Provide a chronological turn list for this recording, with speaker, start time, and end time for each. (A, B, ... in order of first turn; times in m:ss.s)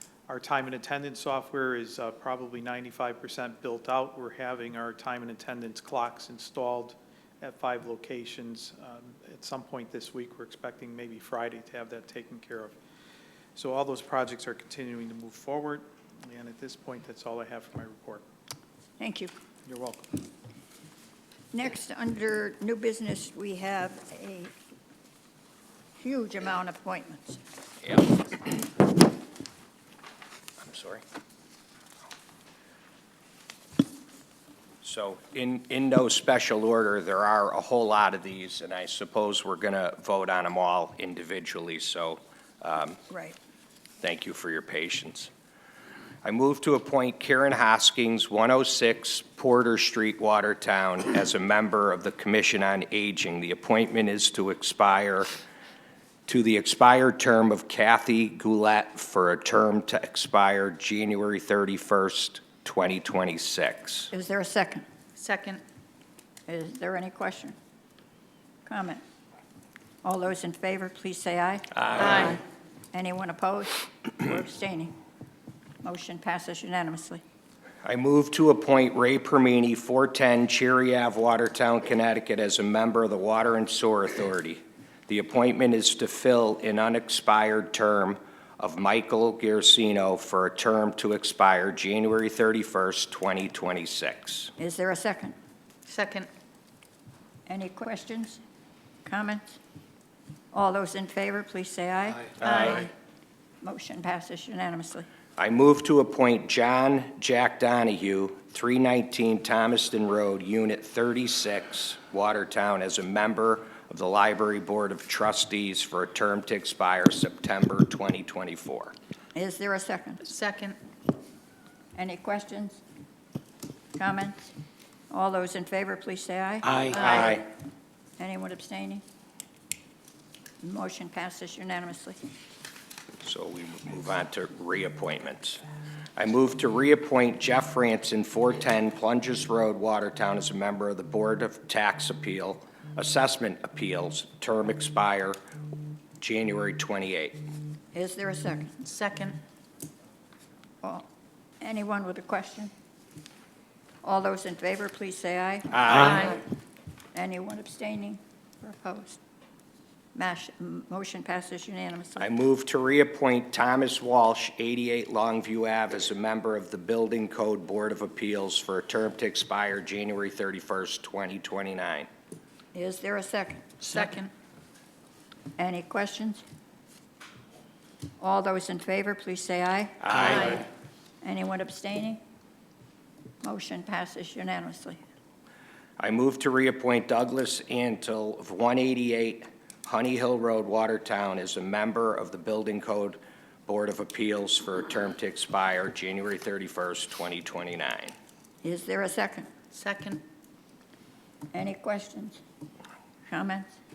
0:00.3-0:12.8 A
0:13.5-0:18.3 A
0:19.0-0:19.3 B
0:19.6-0:20.1 A
0:21.5-0:24.5 B
0:26.0-0:27.4 B
0:27.8-0:28.2 C
0:30.6-0:31.0 C
0:34.8-0:43.0 C
0:43.1-0:43.3 B
0:44.0-0:45.3 C
0:46.2-0:55.3 C
0:56.3-1:04.1 C
1:04.1-1:04.8 B
1:05.2-1:05.6 D
1:06.5-1:07.5 B
1:08.6-1:09.0 B
1:10.0-1:12.4 B
1:11.7-1:12.4 C
1:12.0-1:12.4 D
1:12.9-1:14.9 B
1:15.8-1:17.2 B
1:17.8-1:34.5 C
1:34.6-1:35.3 B
1:35.9-1:36.3 D
1:37.4-1:38.4 B
1:39.0-1:39.6 B
1:40.5-1:42.9 B
1:42.4-1:42.9 D
1:43.6-1:45.1 B
1:45.4-1:58.9 C
1:59.3-2:00.2 B
2:00.2-2:00.8 D
2:01.9-2:02.8 B
2:04.0-2:04.5 B
2:05.1-2:06.7 B
2:06.9-2:07.4 C
2:06.9-2:07.4 D
2:08.2-2:09.0 B
2:10.6-2:12.2 B
2:13.2-2:15.6 C
2:16.2-2:25.4 C
2:26.2-2:27.4 C
2:27.9-2:28.8 B
2:28.8-2:29.4 D
2:31.6-2:32.7 B
2:34.0-2:35.8 B
2:35.7-2:36.4 C
2:35.9-2:36.4 D
2:37.1-2:39.2 B
2:40.1-2:42.3 B
2:42.2-2:52.1 C
2:52.7-2:53.6 B
2:53.8-2:54.3 D
2:55.6-2:56.4 B
2:58.2-3:00.4 B
3:00.0-3:00.6 C
3:00.2-3:00.6 D
3:01.2-3:02.2 B
3:03.4-3:05.0 B
3:06.0-3:18.1 C
3:18.6-3:19.5 B
3:19.7-3:20.2 D
3:21.5-3:22.4 B
3:23.3-3:23.7 B